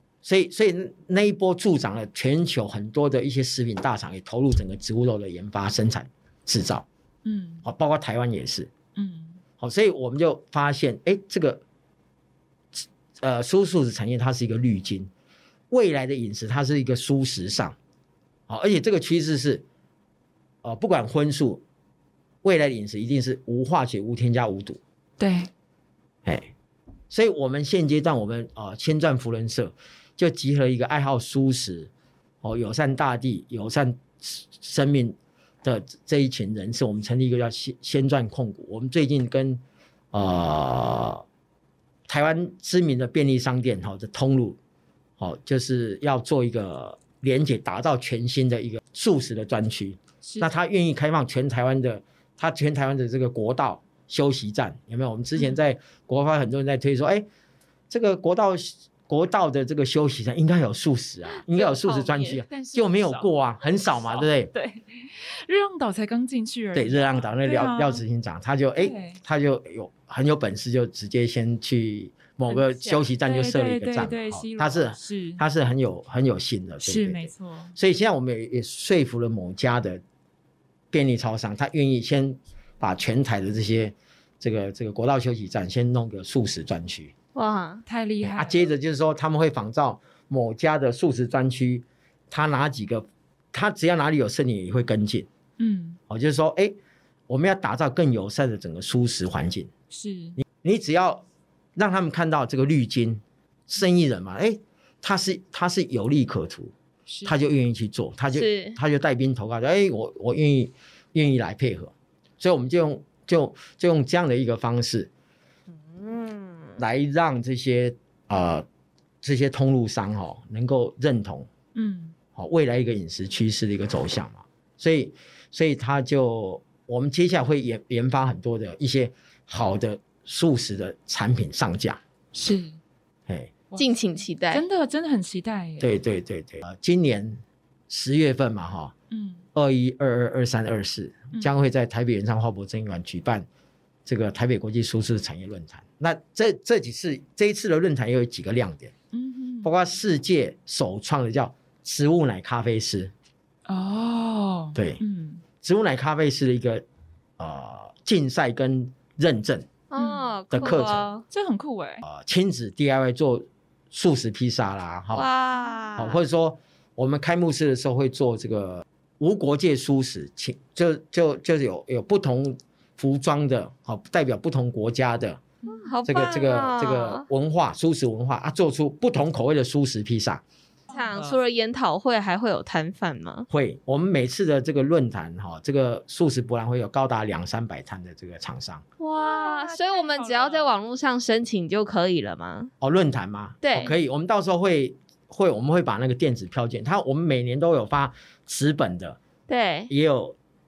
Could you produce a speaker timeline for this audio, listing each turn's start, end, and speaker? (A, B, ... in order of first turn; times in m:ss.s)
0:00.2-0:06.9 A
0:07.2-0:07.6 B
0:07.6-0:08.7 A
0:09.0-0:09.4 B
0:09.6-0:11.6 A
0:12.8-0:15.1 A
0:15.7-0:17.8 A
0:18.5-0:19.6 A
0:20.6-0:21.6 A
0:22.4-0:24.8 A
0:25.2-0:25.5 B
0:26.2-0:26.5 A
0:27.1-0:31.9 A
0:32.4-0:39.6 A
0:40.1-0:41.2 A
0:42.1-0:44.6 A
0:45.2-0:57.3 A
0:50.2-0:50.5 B
0:57.9-1:04.5 A
1:01.5-1:02.4 C
1:02.2-1:08.0 B
1:06.8-1:20.0 A
1:08.8-1:09.2 B
1:12.5-1:15.4 B
1:16.8-1:17.8 B
1:20.9-1:27.1 A
1:27.4-1:27.8 C
1:27.9-1:28.6 B
1:28.2-1:35.3 A
1:35.6-1:36.0 B
1:36.1-1:36.8 A
1:37.3-1:39.7 A
1:39.9-1:40.4 B
1:40.4-1:41.2 A
1:41.8-1:46.7 A
1:47.1-1:47.3 B
1:47.2-1:55.1 A
1:48.3-1:48.8 C
1:55.7-1:56.8 C
1:56.8-1:58.7 A
1:59.2-2:01.5 A
2:01.8-2:02.2 B
2:02.4-2:12.0 A
2:12.3-2:12.8 B
2:13.3-2:13.5 A
2:13.7-2:14.0 B
2:13.8-2:14.6 C
2:14.5-2:15.9 B
2:15.8-2:18.9 A
2:19.1-2:19.4 B
2:19.5-2:23.5 A
2:24.0-2:28.9 A
2:29.1-2:29.7 B
2:29.6-2:33.1 A
2:33.7-2:35.4 B
2:34.8-2:35.0 A
2:35.6-2:36.8 A
2:37.4-2:39.7 A
2:39.9-2:41.2 C
2:40.0-2:40.8 B
2:40.5-2:41.1 A
2:41.3-2:42.0 B
2:42.0-2:45.3 A
2:45.1-2:46.2 C
2:46.0-2:55.4 A
2:55.6-2:55.9 B
2:55.7-2:57.2 C
2:56.1-3:00.4 A
3:00.9-3:01.4 B
3:00.9-3:03.5 C
3:03.5-3:08.8 A
3:09.0-3:12.7 C
3:09.1-3:10.7 B
3:12.8-3:19.2 A
3:13.6-3:14.0 C
3:19.5-3:19.9 C
3:19.9-3:20.4 A